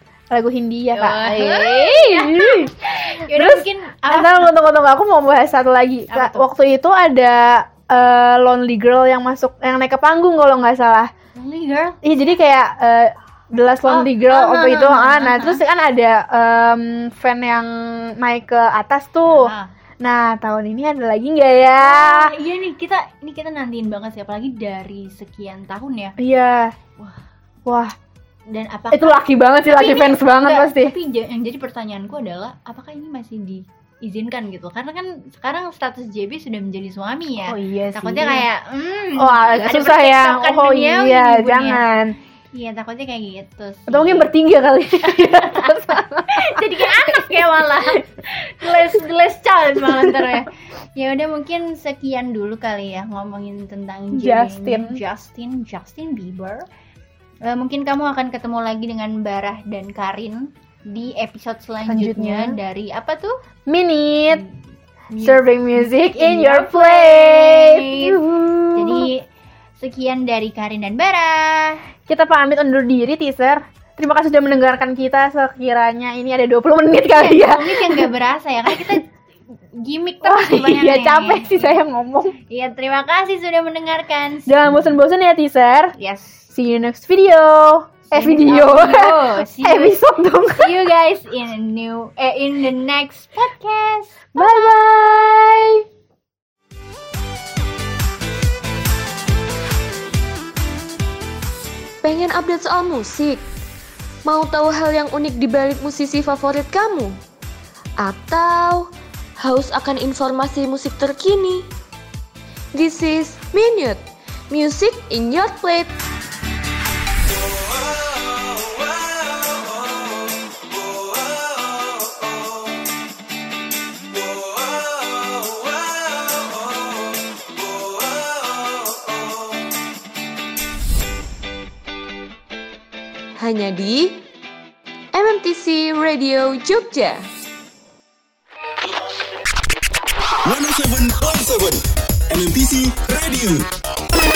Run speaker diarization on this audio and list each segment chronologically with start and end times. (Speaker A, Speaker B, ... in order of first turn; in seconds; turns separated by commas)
Speaker A: 0.3-2.8, Speaker B: 0.9-4.5, Speaker A: 3.3-11.1, Speaker B: 6.1-6.5, Speaker B: 11.3-12.0, Speaker A: 12.0-22.3, Speaker B: 13.8-15.6, Speaker B: 19.3-19.7, Speaker B: 21.8-26.1, Speaker A: 26.2-26.7, Speaker A: 27.6-27.9, Speaker B: 28.5-41.9, Speaker A: 28.9-30.9, Speaker A: 37.4-38.5, Speaker A: 39.1-42.1, Speaker B: 42.5-44.3, Speaker A: 43.9-47.2, Speaker B: 45.0-56.6, Speaker A: 49.8-50.3, Speaker A: 54.1-55.0, Speaker B: 57.4-63.3, Speaker A: 61.9-62.6, Speaker A: 63.7-64.4, Speaker B: 65.1-68.2, Speaker A: 65.2-69.1, Speaker B: 68.7-69.3, Speaker B: 69.8-71.8, Speaker A: 72.1-78.1, Speaker B: 77.1-79.1, Speaker A: 78.7-79.0, Speaker B: 79.8-81.8, Speaker A: 80.2-82.3, Speaker B: 82.5-85.0, Speaker A: 84.5-85.9, Speaker B: 86.0-86.5, Speaker A: 86.5-90.9, Speaker B: 88.1-90.0, Speaker B: 90.5-94.7, Speaker A: 94.3-95.8, Speaker C: 102.0-103.4, Speaker C: 104.2-107.2, Speaker C: 108.0-111.7, Speaker C: 112.7-115.9, Speaker C: 133.4-134.2, Speaker C: 135.1-137.2, Speaker D: 140.4-143.7